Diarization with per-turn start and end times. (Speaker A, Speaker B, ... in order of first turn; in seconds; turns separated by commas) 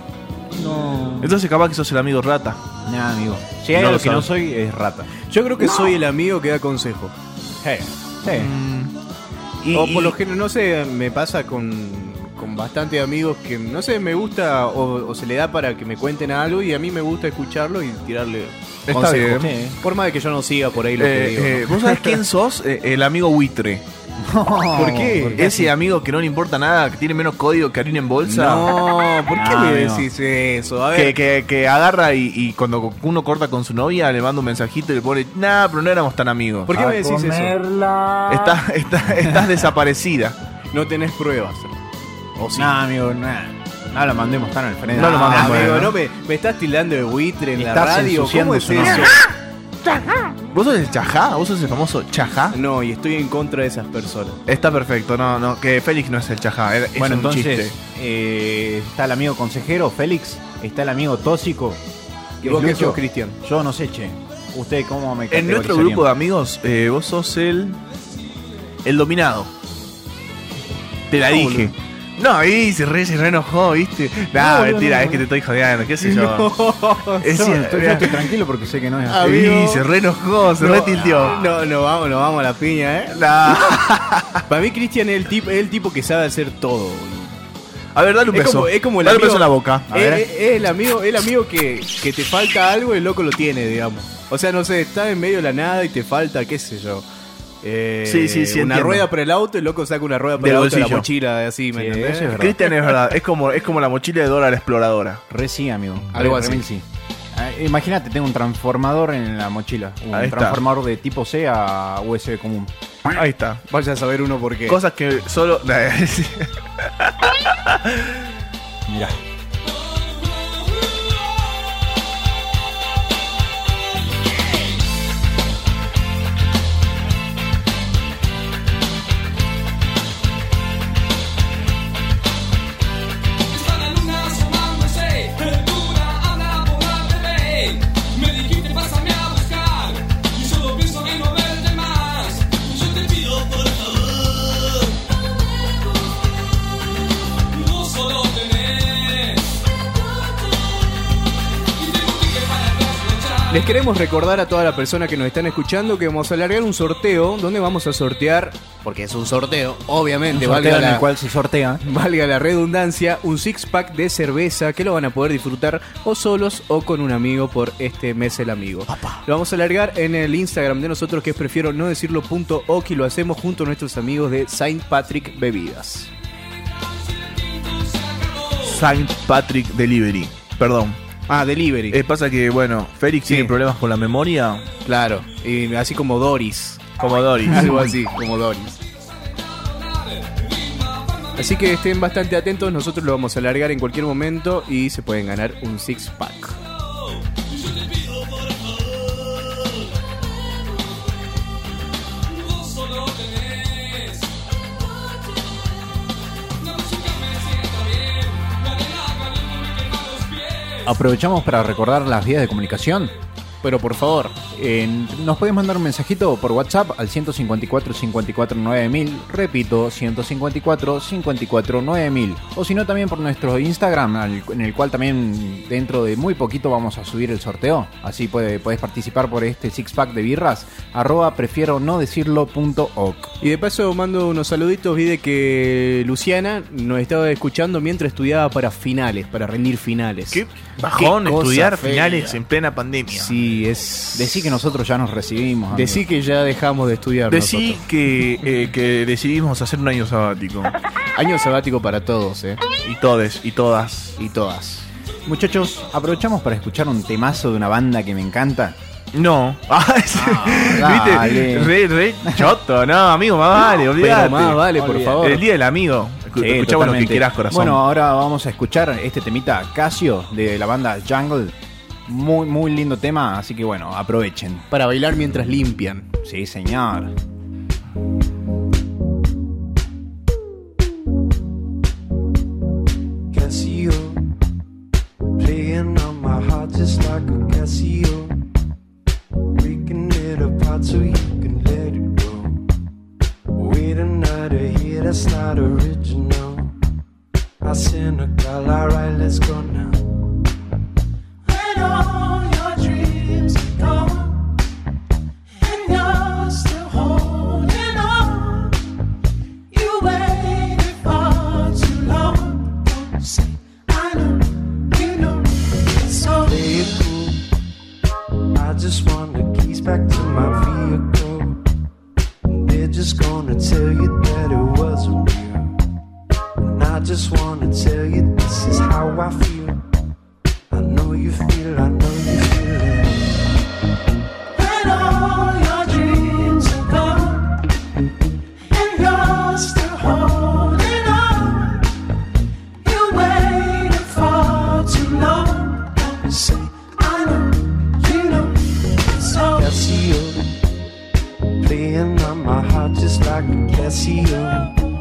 Speaker A: 0.5-1.4, Speaker B: 1.2-2.6, Speaker A: 2.8-5.1, Speaker B: 3.7-4.3, Speaker C: 5.3-7.1, Speaker A: 7.6-8.5, Speaker B: 8.3-8.9, Speaker B: 9.6-10.2, Speaker C: 9.7-22.2, Speaker B: 18.9-19.5, Speaker A: 19.2-19.8, Speaker B: 21.0-23.8, Speaker A: 24.2-25.5, Speaker C: 24.8-25.7, Speaker B: 25.4-28.7, Speaker C: 28.2-31.2, Speaker A: 29.3-30.1, Speaker B: 30.9-36.7, Speaker C: 36.7-38.3, Speaker A: 36.7-37.8, Speaker B: 38.3-40.4, Speaker C: 40.7-41.7, Speaker C: 42.4-42.8, Speaker A: 42.6-45.9, Speaker B: 44.9-46.0, Speaker C: 45.0-49.2, Speaker A: 47.6-49.2, Speaker B: 48.9-49.2, Speaker B: 50.0-52.6, Speaker C: 52.5-54.4, Speaker B: 54.5-57.8, Speaker A: 57.0-61.8, Speaker C: 62.4-63.4, Speaker A: 62.4-66.1, Speaker B: 65.3-67.8, Speaker B: 68.8-69.5, Speaker B: 71.1-76.7, Speaker C: 71.2-71.7, Speaker C: 74.4-75.2, Speaker C: 76.0-77.2, Speaker B: 77.2-78.3, Speaker A: 77.2-79.4, Speaker C: 79.1-79.9, Speaker B: 79.2-81.4, Speaker C: 80.6-83.2, Speaker A: 80.9-81.4, Speaker B: 83.1-84.4, Speaker C: 84.5-87.4, Speaker B: 87.9-89.9, Speaker C: 88.3-97.0, Speaker A: 89.9-90.3, Speaker C: 97.6-102.3, Speaker B: 98.1-99.1, Speaker B: 100.4-101.1, Speaker A: 101.8-102.7, Speaker B: 102.3-105.2, Speaker A: 105.3-112.7, Speaker C: 106.1-106.7, Speaker B: 110.1-110.6, Speaker B: 113.1-113.6, Speaker C: 113.7-114.8, Speaker B: 114.7-118.3, Speaker A: 118.9-119.2, Speaker D: 133.7-137.7, Speaker D: 138.3-139.9, Speaker D: 140.6-142.4, Speaker D: 148.2-148.7, Speaker C: 153.5-161.1, Speaker A: 160.3-161.8, Speaker C: 161.8-176.1, Speaker B: 178.6-181.0, Speaker C: 181.3-182.0, Speaker B: 181.9-184.7, Speaker C: 183.3-183.5, Speaker C: 184.8-186.9, Speaker B: 187.0-187.9, Speaker C: 187.5-188.8, Speaker C: 191.4-196.6, Speaker A: 210.8-213.1, Speaker C: 213.6-214.4, Speaker A: 214.5-233.3, Speaker C: 233.4-242.4, Speaker B: 240.3-243.4, Speaker C: 243.1-244.6, Speaker A: 244.1-246.1, Speaker C: 245.7-247.8, Speaker B: 247.3-250.8, Speaker C: 251.2-252.6, Speaker B: 252.8-254.2, Speaker C: 254.2-254.9, Speaker A: 255.3-258.8, Speaker B: 259.1-267.8, Speaker A: 260.1-262.6, Speaker C: 264.0-265.4, Speaker A: 264.8-265.2, Speaker A: 266.4-271.6, Speaker A: 272.1-274.7, Speaker C: 274.7-276.1, Speaker A: 276.2-277.1, Speaker E: 283.3-284.2, Speaker E: 285.4-288.4, Speaker E: 289.5-292.6, Speaker E: 293.6-296.7, Speaker E: 297.6-300.0, Speaker F: 301.5-303.0, Speaker E: 301.5-304.4, Speaker F: 305.6-308.4, Speaker E: 305.7-308.7, Speaker F: 309.7-312.4, Speaker E: 310.1-314.5, Speaker F: 313.9-314.2, Speaker F: 314.9-315.3, Speaker E: 315.1-315.4, Speaker F: 316.1-316.6, Speaker E: 316.2-317.4, Speaker E: 318.5-321.6, Speaker E: 322.5-325.7, Speaker E: 326.6-329.8, Speaker E: 330.7-333.4, Speaker F: 334.6-336.2, Speaker E: 334.6-337.5, Speaker F: 338.7-341.5, Speaker E: 338.8-341.8, Speaker F: 342.8-344.8, Speaker E: 343.4-348.5, Speaker F: 347.0-347.3, Speaker F: 348.0-348.3, Speaker F: 349.1-349.7, Speaker E: 349.3-350.5, Speaker E: 351.6-354.8